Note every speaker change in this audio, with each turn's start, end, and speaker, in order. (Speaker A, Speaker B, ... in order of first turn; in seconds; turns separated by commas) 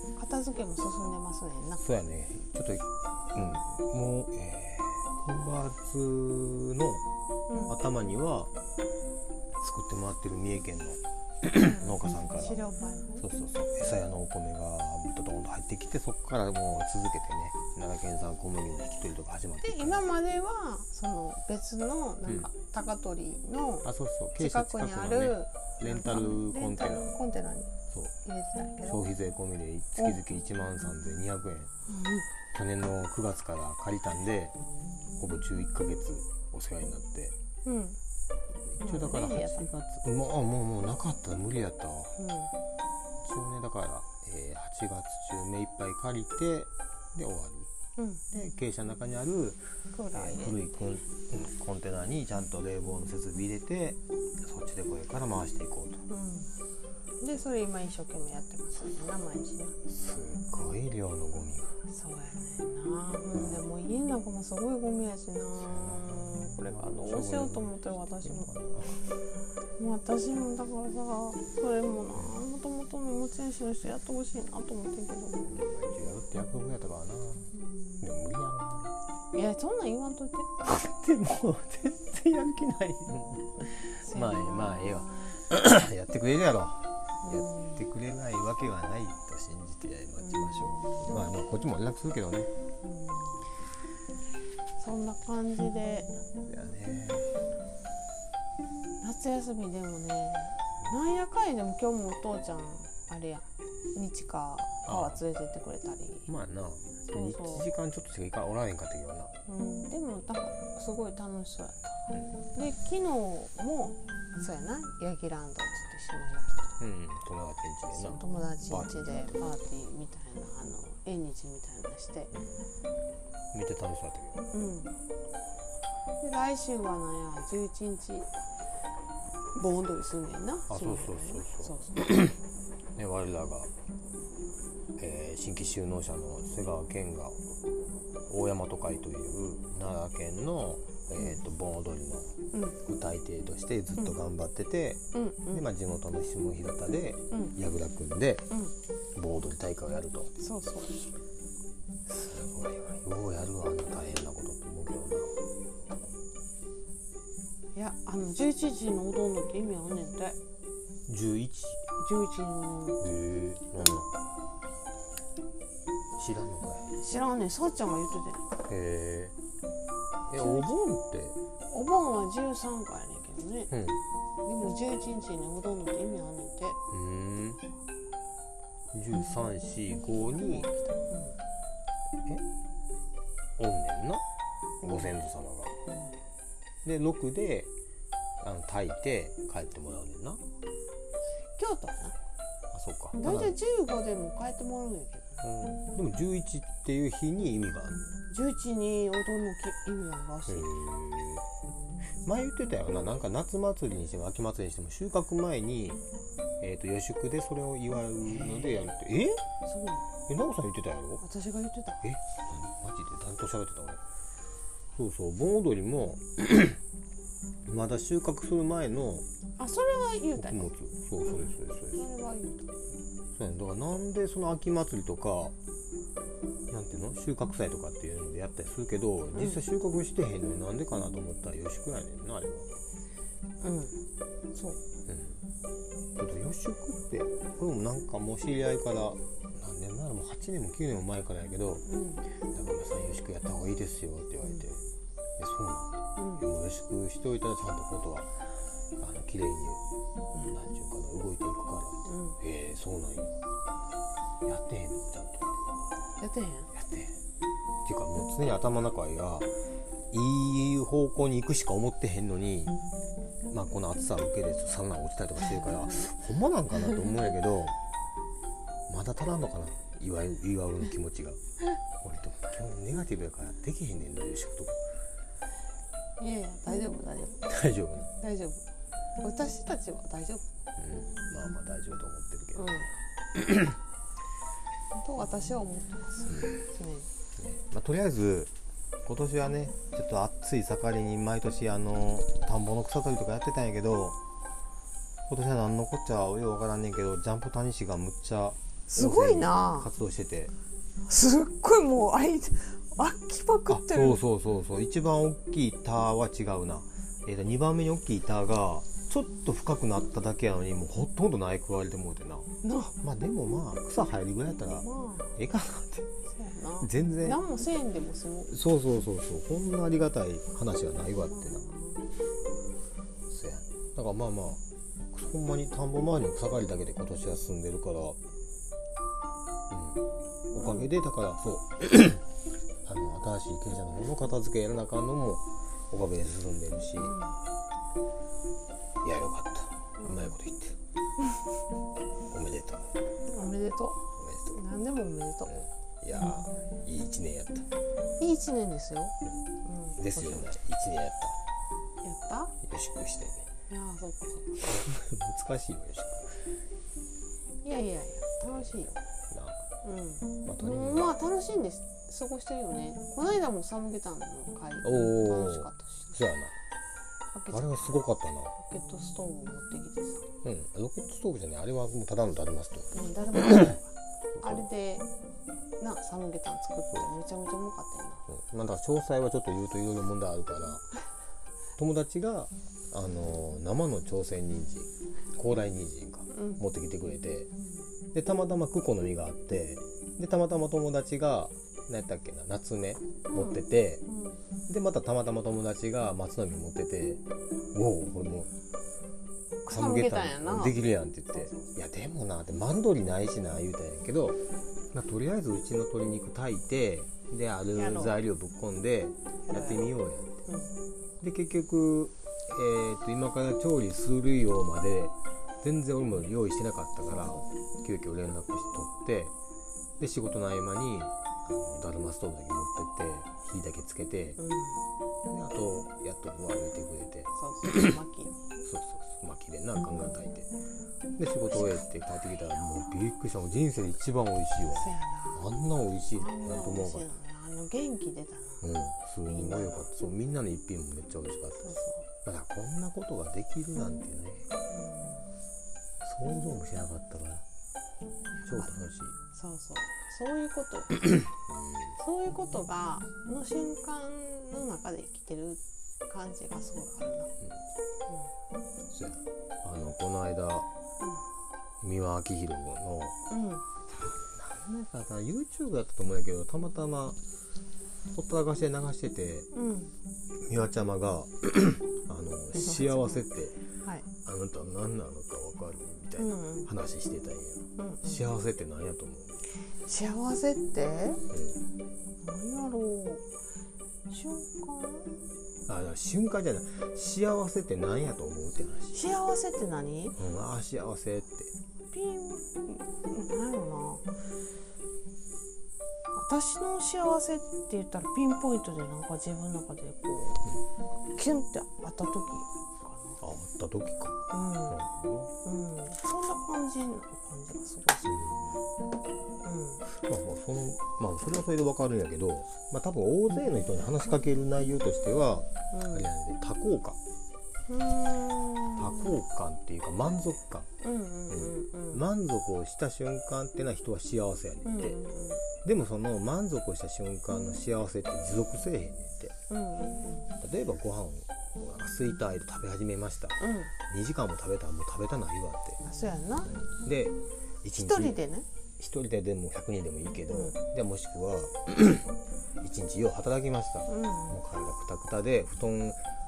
Speaker A: 0.2-1.8, Speaker B: 1.8-7.0, Speaker A: 7.5-7.8, Speaker B: 7.7-8.5, Speaker B: 9.6-12.6, Speaker A: 11.6-13.3, Speaker B: 13.2-20.1, Speaker A: 19.6-27.7, Speaker B: 23.8-27.1, Speaker A: 28.2-29.1, Speaker B: 28.9-31.7, Speaker A: 31.9-32.3, Speaker B: 32.5-34.6, Speaker B: 35.2-37.4, Speaker A: 37.6-38.0, Speaker B: 38.7-42.2, Speaker A: 38.8-39.7, Speaker A: 42.2-42.5, Speaker B: 43.2-47.7, Speaker A: 48.0-48.2, Speaker B: 48.3-56.0, Speaker A: 49.9-50.6, Speaker A: 56.1-56.5, Speaker A: 57.2-59.8, Speaker B: 59.9-61.8, Speaker A: 61.9-68.5, Speaker B: 63.3-63.6, Speaker B: 65.6-69.2, Speaker A: 69.8-75.5, Speaker B: 75.5-79.0, Speaker A: 77.5-78.0, Speaker A: 79.3-80.5, Speaker B: 80.6-92.5, Speaker A: 84.0-85.4, Speaker A: 87.2-87.8, Speaker A: 90.2-91.2, Speaker A: 92.8-93.4, Speaker A: 94.8-96.2, Speaker B: 96.5-97.4, Speaker A: 99.0-106.3, Speaker B: 104.8-105.2, Speaker B: 106.3-109.3, Speaker A: 107.1-107.7, Speaker A: 109.5-116.8, Speaker B: 116.8-119.4, Speaker A: 117.9-122.3, Speaker B: 123.5-124.4, Speaker A: 124.5-124.9, Speaker A: 126.2-128.3, Speaker A: 129.5-132.2, Speaker B: 130.7-132.4, Speaker B: 133.0-133.7, Speaker B: 135.0-137.4, Speaker B: 138.3-148.5, Speaker A: 145.1-145.7, Speaker B: 149.2-150.3, Speaker A: 150.4-151.0, Speaker B: 152.1-155.4, Speaker A: 157.8-160.4, Speaker B: 161.1-161.8, Speaker A: 162.0-163.0, Speaker B: 163.0-164.1, Speaker B: 166.2-166.9, Speaker A: 167.0-168.5, Speaker B: 168.7-169.4, Speaker B: 170.3-171.4, Speaker A: 170.4-170.8, Speaker A: 171.7-173.7, Speaker B: 173.7-174.0, Speaker A: 174.4-176.8, Speaker B: 176.9-177.6, Speaker B: 178.9-180.7, Speaker A: 180.3-181.4, Speaker B: 183.6-184.2, Speaker B: 184.8-185.8, Speaker A: 184.8-185.2, Speaker A: 185.9-186.1, Speaker B: 186.8-187.7, Speaker B: 188.4-190.4, Speaker A: 191.6-192.2, Speaker B: 192.7-193.6, Speaker A: 193.2-195.4, Speaker B: 195.4-198.2, Speaker A: 198.3-200.8, Speaker B: 200.5-201.4, Speaker B: 202.2-206.0, Speaker B: 206.6-209.4, Speaker A: 208.3-208.9, Speaker A: 209.7-210.1, Speaker B: 210.3-211.2, Speaker A: 211.2-212.1, Speaker B: 212.0-214.0, Speaker B: 214.9-216.8, Speaker B: 217.7-219.3, Speaker A: 219.6-220.7, Speaker B: 220.4-222.1, Speaker A: 221.3-222.8, Speaker B: 223.3-225.6, Speaker B: 226.7-232.7, Speaker A: 229.3-229.6, Speaker A: 233.6-234.0, Speaker A: 234.5-234.8, Speaker B: 235.1-235.4, Speaker B: 236.2-241.8, Speaker A: 241.9-242.2, Speaker B: 242.5-244.8, Speaker B: 245.4-249.8, Speaker A: 246.2-246.4, Speaker B: 250.5-253.4, Speaker A: 252.1-252.4, Speaker B: 254.4-255.6, Speaker A: 256.2-256.7, Speaker B: 256.7-257.2, Speaker B: 257.8-259.5, Speaker B: 260.1-262.8, Speaker B: 263.5-267.8, Speaker B: 268.9-271.4, Speaker B: 272.0-274.8, Speaker A: 276.2-277.5, Speaker B: 277.5-278.1, Speaker A: 278.2-278.6, Speaker A: 279.2-280.4, Speaker B: 280.8-283.8, Speaker A: 282.6-282.9, Speaker A: 284.9-287.1, Speaker B: 286.3-286.6, Speaker B: 287.4-288.5, Speaker B: 289.1-294.2, Speaker B: 295.3-300.5, Speaker A: 298.9-299.9, Speaker A: 301.1-304.2, Speaker B: 303.7-312.5, Speaker A: 312.6-313.0, Speaker B: 313.0-316.1, Speaker A: 314.8-315.4, Speaker A: 316.3-318.5, Speaker B: 316.8-317.4, Speaker B: 318.5-321.7, Speaker A: 321.2-322.0, Speaker B: 323.3-328.2, Speaker B: 329.7-332.2, Speaker A: 330.5-330.9, Speaker B: 332.9-337.2, Speaker A: 337.0-337.4, Speaker B: 339.0-340.8, Speaker A: 340.0-340.4, Speaker B: 342.3-342.9, Speaker A: 343.3-345.6, Speaker B: 344.2-344.6, Speaker B: 345.5-347.7, Speaker A: 346.2-346.7, Speaker A: 348.2-350.5, Speaker B: 350.0-351.4, Speaker A: 352.0-352.6, Speaker B: 352.6-353.5, Speaker A: 353.7-354.8, Speaker B: 354.7-356.6, Speaker A: 357.6-359.0, Speaker B: 358.5-358.8, Speaker B: 359.3-359.6, Speaker A: 359.8-366.2, Speaker B: 360.4-361.1, Speaker B: 364.8-366.6, Speaker A: 367.3-368.0, Speaker B: 367.5-368.5, Speaker A: 368.6-370.3, Speaker B: 370.4-372.9, Speaker A: 372.9-375.1, Speaker B: 374.3-374.7, Speaker A: 375.8-378.3, Speaker B: 378.3-380.9, Speaker B: 381.8-387.5, Speaker A: 386.3-386.6, Speaker B: 388.1-394.0, Speaker A: 393.3-394.4, Speaker B: 394.7-398.5, Speaker A: 399.6-401.7, Speaker B: 399.7-404.4, Speaker B: 404.9-410.5, Speaker A: 407.8-408.2, Speaker A: 409.5-409.9, Speaker B: 411.2-419.4, Speaker B: 420.0-424.4, Speaker A: 424.4-424.8, Speaker B: 425.3-427.9, Speaker A: 427.4-428.5, Speaker B: 428.6-430.5, Speaker B: 431.2-437.1, Speaker A: 431.5-431.8, Speaker A: 434.7-435.5, Speaker A: 436.1-438.7, Speaker B: 438.6-444.5, Speaker A: 439.3-439.9, Speaker A: 441.6-442.1, Speaker A: 444.7-445.3, Speaker B: 446.0-447.4, Speaker A: 448.3-448.7, Speaker B: 448.4-449.2, Speaker A: 449.3-451.1, Speaker B: 451.4-452.0, Speaker A: 452.0-457.3, Speaker B: 458.9-460.7, Speaker B: 461.8-463.1, Speaker A: 463.3-463.6, Speaker B: 463.9-467.2, Speaker B: 468.1-469.5, Speaker A: 469.5-469.9, Speaker B: 470.4-473.6, Speaker A: 472.5-473.3, Speaker B: 474.2-479.4, Speaker A: 476.2-476.7, Speaker A: 477.8-478.2, Speaker A: 479.9-481.2, Speaker B: 481.3-481.6, Speaker A: 482.2-483.2, Speaker A: 484.1-485.1, Speaker B: 485.7-489.0, Speaker A: 488.9-490.2, Speaker B: 490.2-491.5, Speaker A: 491.9-494.1, Speaker A: 496.1-500.5, Speaker A: 501.1-503.2, Speaker B: 503.2-505.3, Speaker A: 504.3-504.8, Speaker A: 505.4-508.3, Speaker B: 508.1-508.6, Speaker A: 509.4-509.8, Speaker B: 509.9-517.0, Speaker A: 515.7-516.1, Speaker A: 517.7-519.2, Speaker B: 518.8-520.7, Speaker A: 520.8-522.0, Speaker B: 521.3-525.0, Speaker A: 524.6-525.4, Speaker B: 525.6-529.4, Speaker A: 529.5-530.3, Speaker B: 530.4-535.8, Speaker A: 533.4-533.7, Speaker A: 535.9-536.6, Speaker B: 536.5-538.2, Speaker A: 537.8-538.5, Speaker B: 538.8-546.0, Speaker A: 543.9-544.4